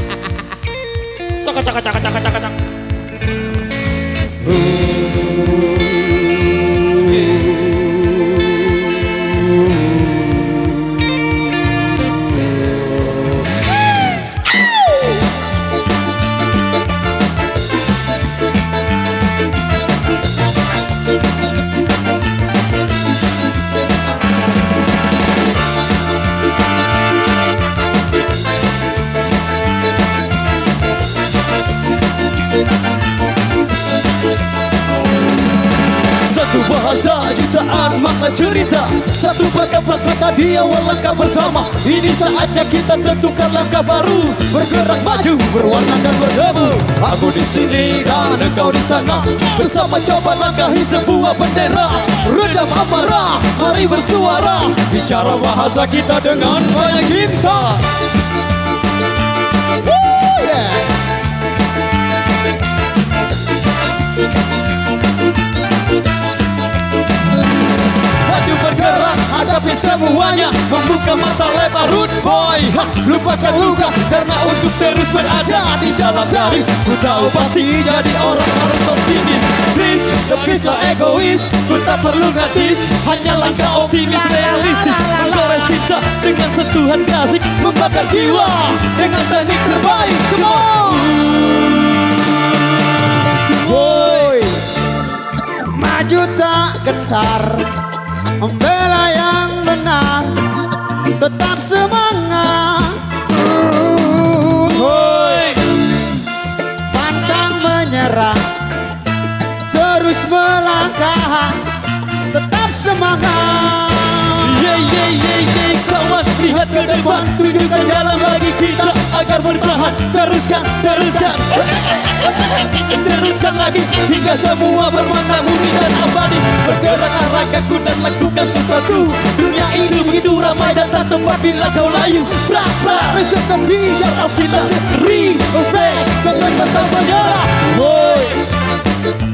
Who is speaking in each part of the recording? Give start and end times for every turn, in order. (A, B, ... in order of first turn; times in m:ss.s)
0:01.4-0:02.6 A
0:07.2-0:07.5 A
0:36.2-0:57.9 A
1:00.2-1:00.9 B
1:08.2-1:31.6 A
1:15.8-1:16.6 B
1:24.5-1:25.7 B
1:29.9-1:31.5 B
1:33.5-1:34.5 A
1:33.6-1:34.7 B
1:35.6-1:37.8 B
1:38.4-1:40.6 B
1:41.1-1:44.9 B
1:44.7-1:45.8 A
1:46.9-1:48.5 B
1:49.7-1:54.6 B
1:54.4-2:18.4 A
2:13.2-2:14.0 B
2:16.0-2:17.2 B